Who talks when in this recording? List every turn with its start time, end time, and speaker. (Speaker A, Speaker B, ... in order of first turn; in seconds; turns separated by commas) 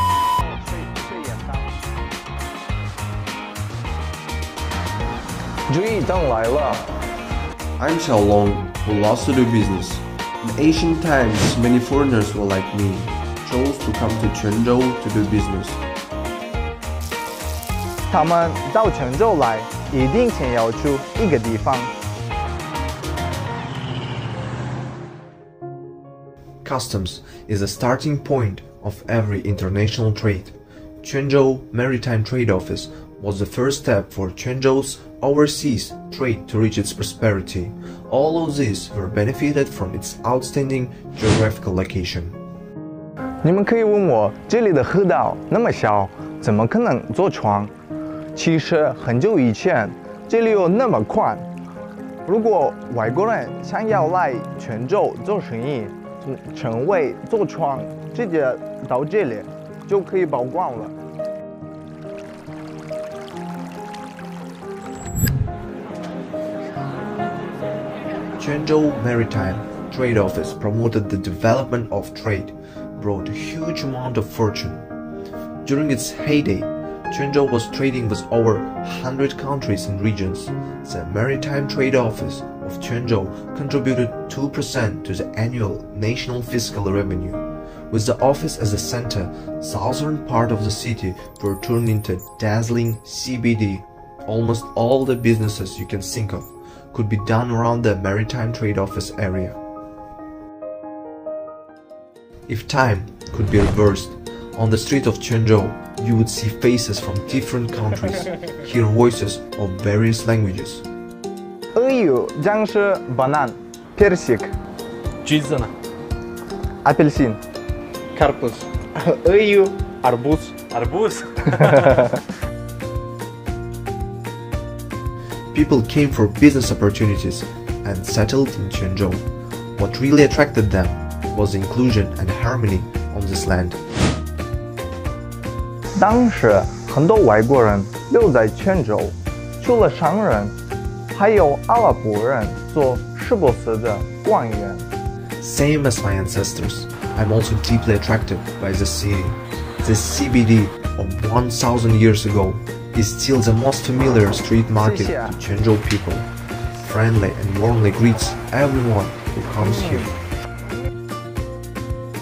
Speaker A: 0.4-1.7, Speaker A: 5.7-6.9, Speaker B: 7.8-15.8, Speaker A: 18.1-21.9, Speaker B: 26.6-42.4, Speaker A: 43.4-47.7, Speaker A: 48.3-51.5, Speaker A: 52.2-60.9, Speaker B: 68.4-74.9, Speaker B: 75.6-99.6, Speaker B: 102.5-110.8, Speaker A: 111.7-114.5, Speaker C: 115.2-115.7, Speaker A: 116.8-117.4, Speaker A: 118.2-120.5, Speaker C: 120.7-122.1, Speaker B: 125.5-129.2, Speaker B: 129.8-133.8, Speaker A: 136.0-140.5, Speaker A: 141.1-144.9, Speaker B: 145.4-156.3, Speaker A: 154.7-155.3, Speaker B: 156.8-160.2, Speaker A: 159.6-160.1